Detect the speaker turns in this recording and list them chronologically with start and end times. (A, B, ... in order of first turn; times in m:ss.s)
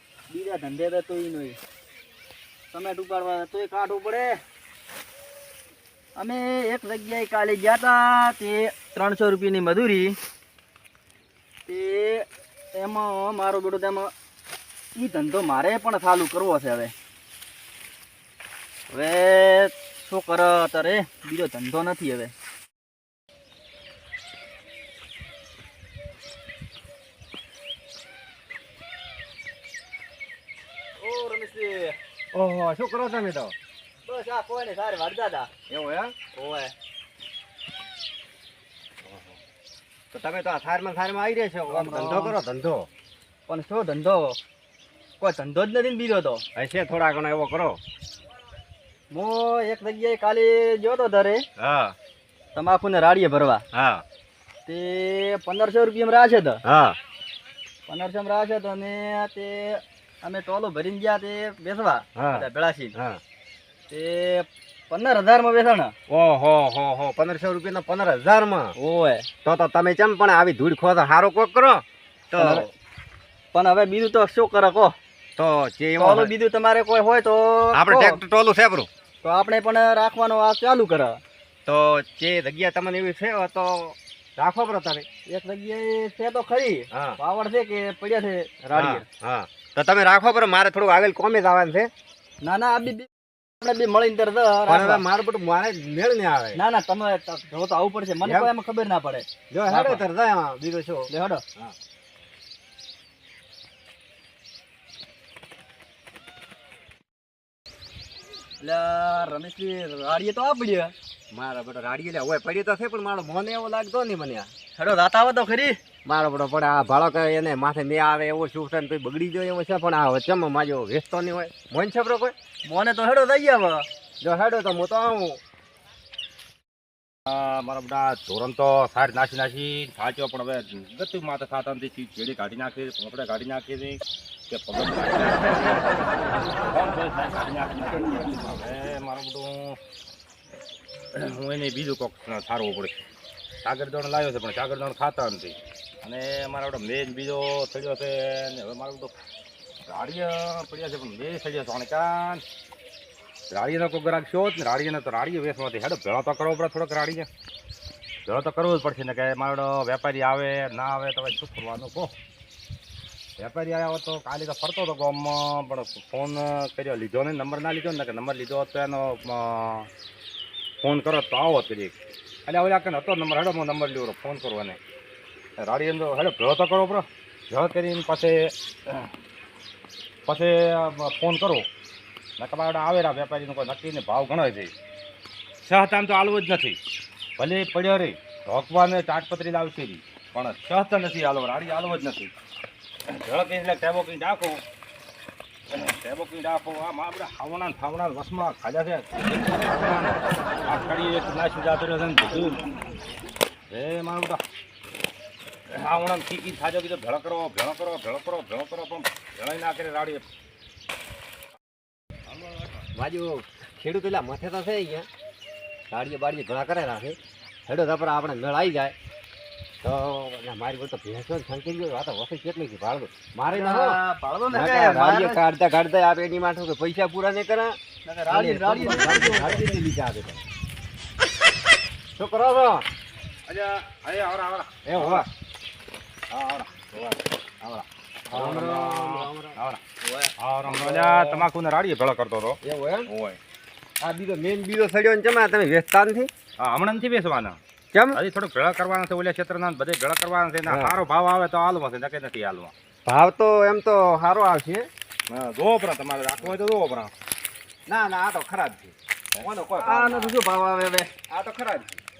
0:00.3-0:01.6 A
0:02.7-0:04.4 A
0:06.2-0:10.2 A
0:11.7-0:14.1 A
0:15.0-0:16.9 A
0:18.9-0:22.3 A
0:31.0-0:32.0 A
0:32.3-0:33.6 B
0:34.1-0:35.5 A
0:35.7-0:36.2 B
0:36.3-0:36.7 A
0:39.0-0:39.4 B
0:40.1-0:42.9 B
0:41.7-0:42.4 A
0:43.5-0:44.4 A
0:45.2-0:46.4 A
0:46.6-0:47.8 B
0:49.1-0:51.4 A
0:51.6-0:52.0 B
0:52.6-0:53.6 A
0:53.7-0:54.0 B
0:54.7-0:56.6 A
0:56.6-0:57.0 B
0:57.9-1:02.9 A
1:02.2-1:03.2 B
1:03.9-1:06.0 A
1:06.1-1:08.8 B
1:08.8-1:09.3 A
1:09.4-1:12.7 B
1:12.4-1:12.7 A
1:13.5-1:15.0 A
1:15.4-1:16.3 B
1:16.0-1:18.2 A
1:17.7-1:18.9 B
1:19.2-1:21.2 A
1:21.7-1:25.1 B
1:25.3-1:29.0 A
1:26.9-1:27.2 B
1:28.7-1:31.9 B
1:32.4-1:33.1 A
1:33.6-1:35.0 A
1:34.7-1:36.6 B
1:36.6-1:40.0 A
1:38.2-1:38.5 B
1:39.5-1:41.8 B
1:41.1-1:41.4 A
1:48.6-1:50.9 A
1:51.3-1:54.5 B
1:54.8-1:55.8 A
1:56.0-2:02.4 B
2:02.7-2:03.8 A
2:04.2-2:05.4 B
2:07.3-2:14.0 C
2:14.5-2:15.9 C
2:16.7-2:19.8 C
2:21.2-2:23.0 C
2:23.6-2:29.1 C
2:29.9-2:32.4 C
2:33.5-2:37.3 C
2:38.3-2:42.1 C
2:43.4-2:49.9 C
2:50.8-2:51.9 C
2:52.5-2:54.8 C
2:55.6-2:59.1 C
3:00.3-3:01.6 C
3:02.4-3:04.7 C
3:05.6-3:06.8 C
3:07.4-3:12.3 C
3:13.1-3:14.6 C
3:15.7-3:22.6 C
3:23.7-3:24.4 C
3:25.7-3:30.2 C
3:32.4-3:32.7 C
3:33.0-3:35.1 B
3:35.9-3:39.0 B
3:39.8-3:44.0 B
3:43.5-3:45.4 A
3:44.5-3:47.8 B
3:48.0-3:49.6 A
3:48.3-3:50.4 B
3:52.2-3:52.9 B
3:53.5-3:55.3 C
3:54.9-3:55.3 B
3:56.3-3:59.8 C
3:58.3-4:01.4 B
4:00.4-4:03.4 C
4:02.6-4:03.1 B
4:04.0-4:06.3 B
4:06.6-4:07.6 C
4:07.9-4:08.2 B
4:08.1-4:12.7 C
4:10.7-4:11.0 B
4:13.1-4:14.9 B
4:15.3-4:17.1 C
4:17.9-4:20.4 B
4:19.8-4:21.1 A
4:21.3-4:22.0 B